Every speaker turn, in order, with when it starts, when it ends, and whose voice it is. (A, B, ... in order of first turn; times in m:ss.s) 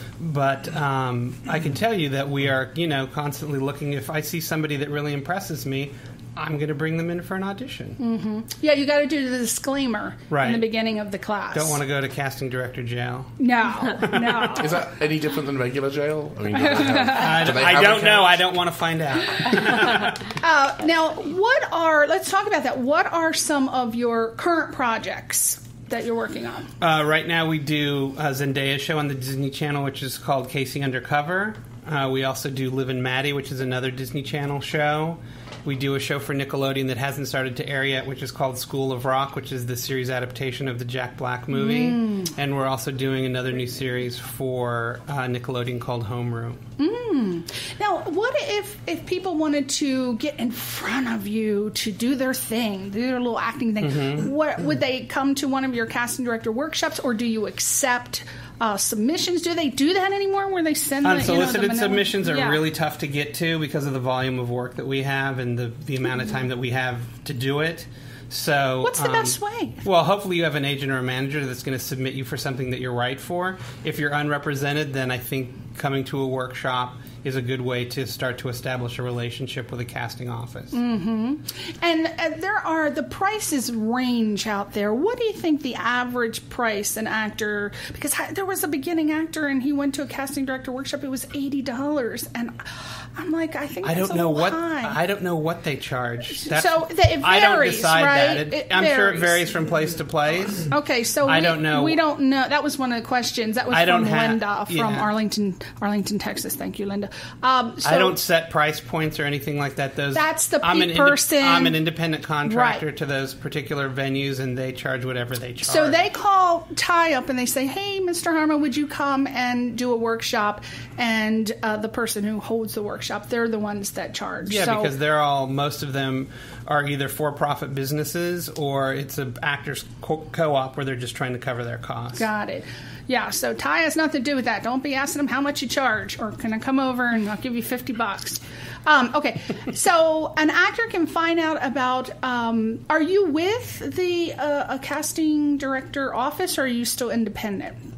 0:00.2-0:08.0 A
0:08.0-0:11.8 B
0:10.3-0:10.7 A
0:11.5-0:13.4 A
0:13.4-0:14.9 B
0:13.9-0:14.6 A
0:14.5-0:18.4 C
0:16.6-0:17.6 B
0:17.1-0:20.2 A
0:20.4-0:26.7 B
0:26.8-0:46.6 A
0:41.5-0:42.3 B
0:46.8-1:02.6 B
0:53.8-0:54.3 A
1:01.0-1:20.8 A
1:06.1-1:06.4 B
1:08.8-1:09.8 B
1:20.7-1:32.6 B
1:33.2-1:35.0 B
1:33.8-1:40.7 A
1:36.4-1:39.5 B
1:40.7-1:48.2 B
1:41.2-1:42.0 A
1:43.7-1:45.1 A
1:47.8-1:56.1 A
1:50.1-1:51.8 B
1:52.5-1:52.8 B
1:55.6-2:04.9 B
2:04.5-2:12.3 A
2:12.2-2:27.8 B